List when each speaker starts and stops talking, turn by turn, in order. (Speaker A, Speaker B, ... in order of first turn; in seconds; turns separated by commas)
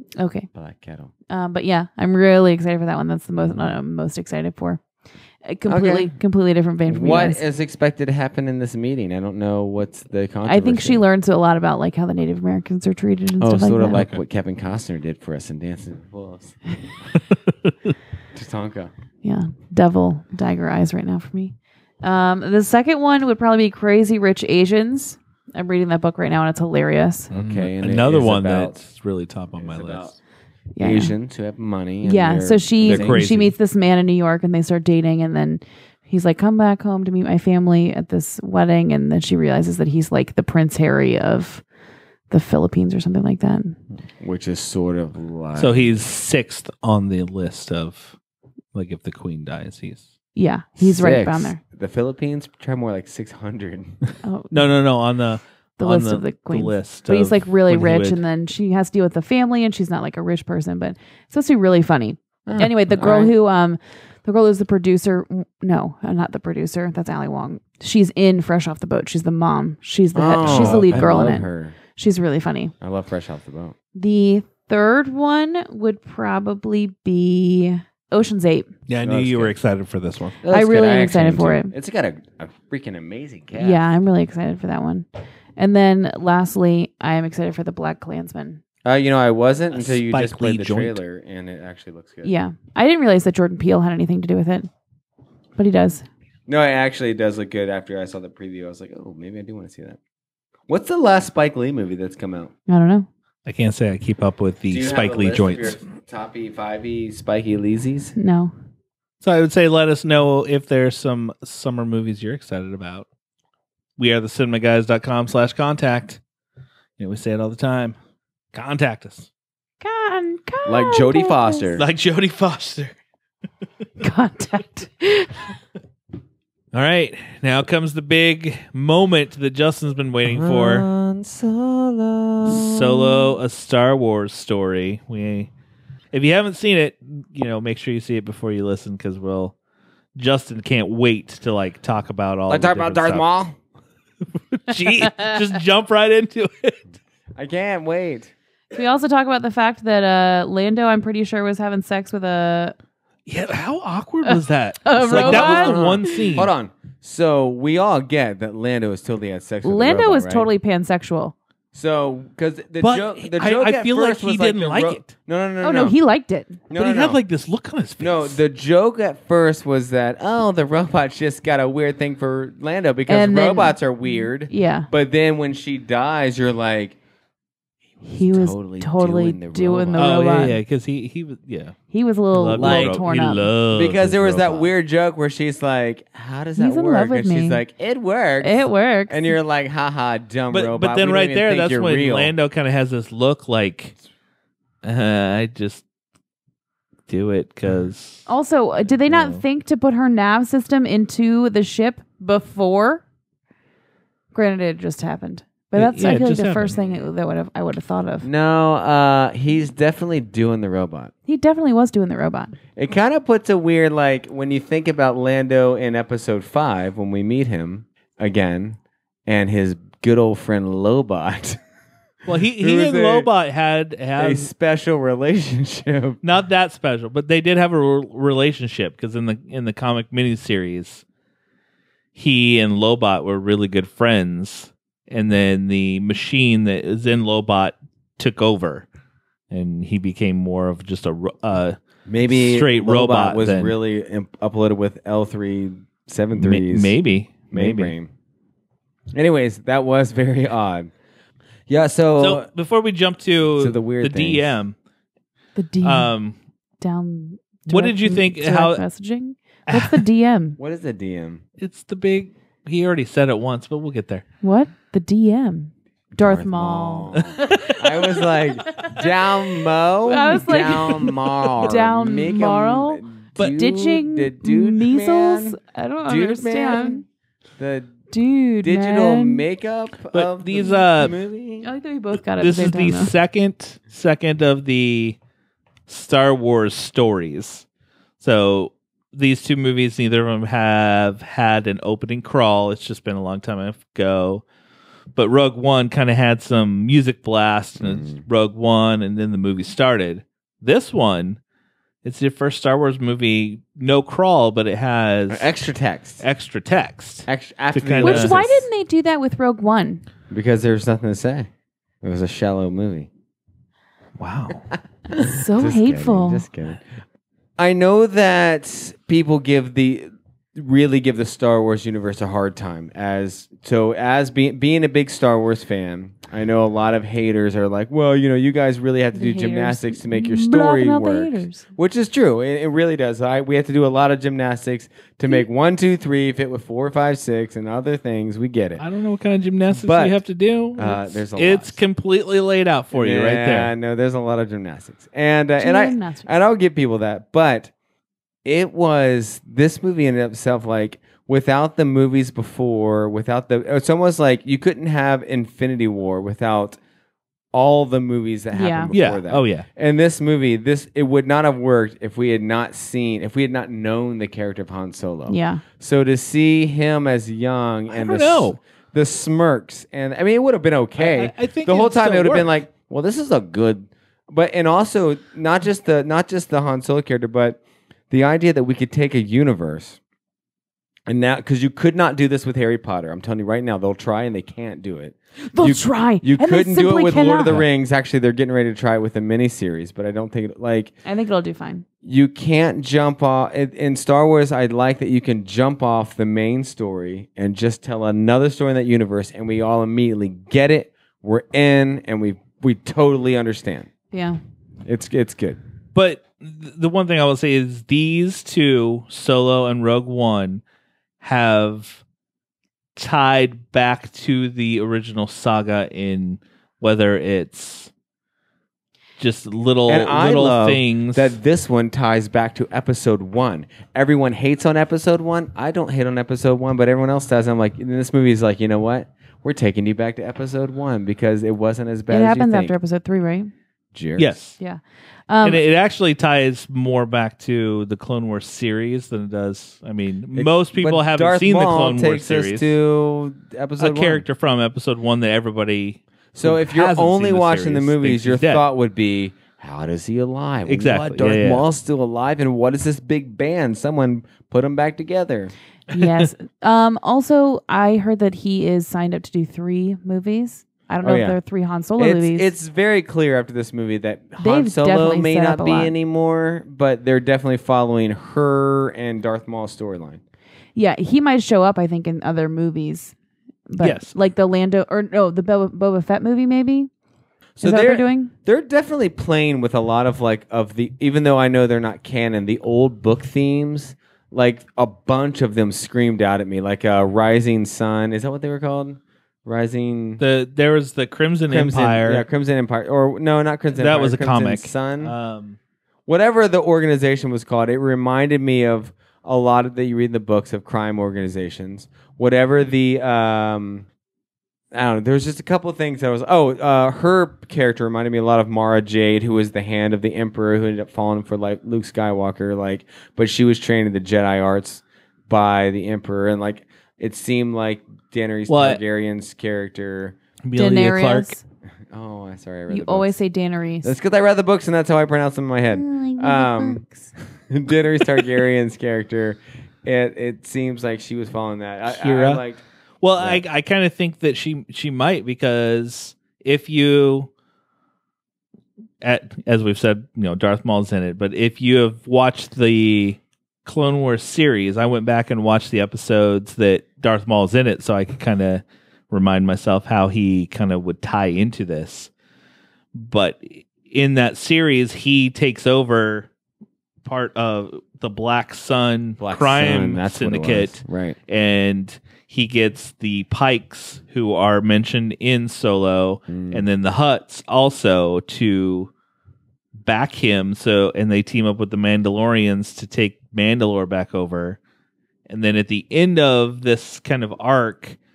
Speaker A: 0.2-0.5, Speaker B: 0.5-1.1, Speaker A: 1.3-4.8, Speaker A: 5.4-7.4, Speaker B: 5.7-6.1, Speaker B: 6.8-11.0, Speaker A: 10.4-14.0, Speaker B: 13.4-16.6, Speaker C: 13.9-14.2, Speaker C: 17.3-17.9, Speaker B: 18.3-18.9, Speaker A: 19.2-27.3, Speaker B: 27.3-28.8, Speaker C: 27.3-30.1, Speaker B: 29.6-30.1, Speaker A: 30.7-31.1, Speaker B: 30.8-33.2, Speaker A: 32.0-41.6, Speaker C: 32.8-33.5, Speaker A: 42.3-43.8, Speaker B: 44.2-45.9, Speaker C: 45.6-48.1, Speaker C: 48.7-50.0, Speaker A: 50.3-51.6, Speaker B: 50.8-54.0, Speaker A: 54.2-54.5, Speaker C: 54.5-58.2, Speaker A: 55.8-72.7, Speaker B: 62.5-63.3, Speaker B: 70.1-71.8, Speaker C: 70.4-71.2, Speaker B: 72.8-73.7, Speaker A: 73.9-78.7, Speaker C: 78.9-80.4, Speaker B: 79.0-79.5, Speaker B: 80.4-83.9, Speaker A: 80.5-81.7, Speaker A: 83.5-88.6, Speaker B: 88.8-92.3, Speaker C: 89.7-91.0, Speaker A: 92.2-94.7, Speaker A: 95.6-96.0, Speaker B: 96.5-100.0, Speaker B: 100.7-102.5, Speaker A: 102.7-103.1, Speaker C: 103.5-105.8, Speaker B: 104.7-108.1, Speaker A: 108.2-108.5, Speaker C: 109.2-113.0, Speaker C: 114.0-116.2, Speaker C: 117.0-118.0, Speaker C: 118.5-119.3, Speaker A: 119.8-121.7, Speaker B: 120.7-121.8, Speaker C: 121.8-122.9, Speaker A: 124.0-125.5, Speaker C: 126.7-130.9, Speaker B: 130.2-133.2, Speaker C: 132.4-135.5, Speaker C: 136.1-139.5, Speaker C: 140.2-143.2, Speaker B: 142.5-143.5, Speaker C: 144.5-146.8, Speaker B: 147.3-148.3, Speaker A: 148.7-152.8, Speaker C: 153.2-156.5, Speaker A: 154.2-156.3, Speaker B: 155.0-160.5, Speaker A: 159.6-161.3, Speaker B: 161.7-165.9, Speaker C: 162.8-165.1, Speaker A: 165.6-166.6, Speaker B: 166.7-167.2, Speaker C: 166.7-168.4, Speaker B: 168.0-177.0, Speaker A: 173.1-174.9, Speaker A: 178.0-180.6, Speaker B: 178.1-180.1, Speaker C: 179.9-181.7, Speaker A: 181.9-183.5, Speaker C: 182.3-184.7, Speaker B: 182.6-183.0, Speaker B: 183.7-192.3, Speaker A: 186.6-187.6, Speaker A: 188.4-189.3, Speaker C: 190.5-193.9, Speaker C: 194.8-195.8, Speaker C: 197.1-198.3, Speaker A: 198.3-203.0, Speaker C: 199.1-199.4, Speaker A: 204.3-208.3, Speaker C: 205.7-206.8, Speaker B: 206.8-207.0, Speaker B: 208.2-211.1, Speaker A: 211.3-212.6, Speaker B: 212.7-221.6, Speaker C: 222.2-224.5, Speaker B: 222.6-223.3, Speaker B: 224.2-226.2, Speaker C: 226.2-231.0, Speaker C: 232.1-238.9, Speaker C: 239.5-243.7, Speaker B: 242.1-246.9, Speaker C: 246.4-247.9, Speaker B: 247.5-248.1, Speaker B: 249.1-250.9, Speaker B: 251.7-252.5, Speaker C: 252.2-254.7, Speaker B: 253.6-254.6, Speaker A: 255.6-256.1, Speaker C: 255.8-256.4, Speaker A: 256.8-260.6, Speaker C: 257.7-258.8, Speaker C: 259.7-260.0, Speaker B: 260.6-261.4, Speaker C: 261.6-264.2, Speaker A: 264.4-269.3, Speaker B: 266.1-277.0, Speaker C: 267.2-267.7, Speaker A: 270.0-277.0, Speaker B: 277.6-277.9, Speaker A: 278.1-279.4, Speaker B: 278.6-281.7, Speaker C: 280.1-281.1, Speaker A: 281.6-283.1, Speaker C: 282.4-285.2, Speaker C: 285.9-287.6, Speaker C: 288.2-294.4, Speaker C: 295.1-301.4, Speaker B: 297.8-298.2, Speaker C: 302.0-305.5, Speaker B: 305.3-306.2, Speaker C: 306.2-308.4, Speaker B: 307.3-308.7, Speaker A: 308.0-310.0, Speaker B: 310.3-311.5, Speaker B: 312.0-313.1, Speaker C: 314.2-314.7, Speaker A: 315.1-316.4, Speaker B: 315.1-316.8, Speaker B: 317.6-338.8, Speaker A: 329.1-331.6, Speaker C: 338.8-343.7, Speaker B: 339.7-340.2, Speaker B: 340.8-341.8, Speaker B: 342.9-347.7, Speaker A: 345.6-346.3, Speaker B: 348.4-356.8, Speaker B: 357.5-380.0, Speaker A: 358.5-358.9, Speaker C: 358.9-359.6, Speaker A: 365.3-365.6, Speaker C: 367.9-368.6, Speaker C: 371.0-372.5, Speaker B: 381.1-390.9, Speaker A: 385.4-387.6, Speaker A: 391.0-391.8, Speaker B: 392.0-403.9, Speaker A: 404.1-404.4, Speaker B: 404.8-405.6, Speaker C: 405.9-410.6, Speaker C: 411.2-412.0, Speaker C: 412.9-417.9, Speaker C: 419.2-421.4, Speaker B: 419.9-432.8, Speaker A: 432.1-433.5, Speaker B: 433.9-434.4, Speaker C: 434.2-434.6, Speaker A: 434.6-435.6, Speaker C: 435.4-442.7, Speaker B: 440.3-444.2, Speaker C: 443.8-448.6, Speaker B: 446.3-455.5, Speaker C: 450.6-451.6, Speaker C: 455.9-456.3, Speaker A: 455.9-462.5, Speaker B: 461.0-461.4, Speaker B: 462.0-470.2, Speaker A: 464.4-465.9, Speaker A: 470.7-473.1, Speaker A: 473.7-476.9, Speaker C: 473.8-474.1, Speaker B: 477.6-490.2, Speaker A: 477.6-478.3, Speaker C: 490.2-492.2, Speaker B: 491.5-495.1, Speaker C: 493.7-495.6, Speaker B: 496.1-503.9, Speaker B: 504.7-520.2, Speaker C: 518.5-518.8, Speaker C: 520.4-521.4, Speaker A: 520.5-521.4, Speaker B: 521.9-523.2, Speaker A: 522.7-523.9, Speaker B: 523.8-526.8, Speaker A: 525.7-527.1, Speaker B: 527.5-532.6, Speaker C: 531.9-532.4, Speaker C: 533.0-537.3, Speaker B: 533.2-533.4, Speaker C: 539.0-552.1, Speaker C: 552.9-556.3, Speaker C: 557.0-568.9, Speaker B: 559.2-561.2, Speaker B: 566.3-566.6, Speaker C: 569.8-574.6, Speaker C: 575.3-578.0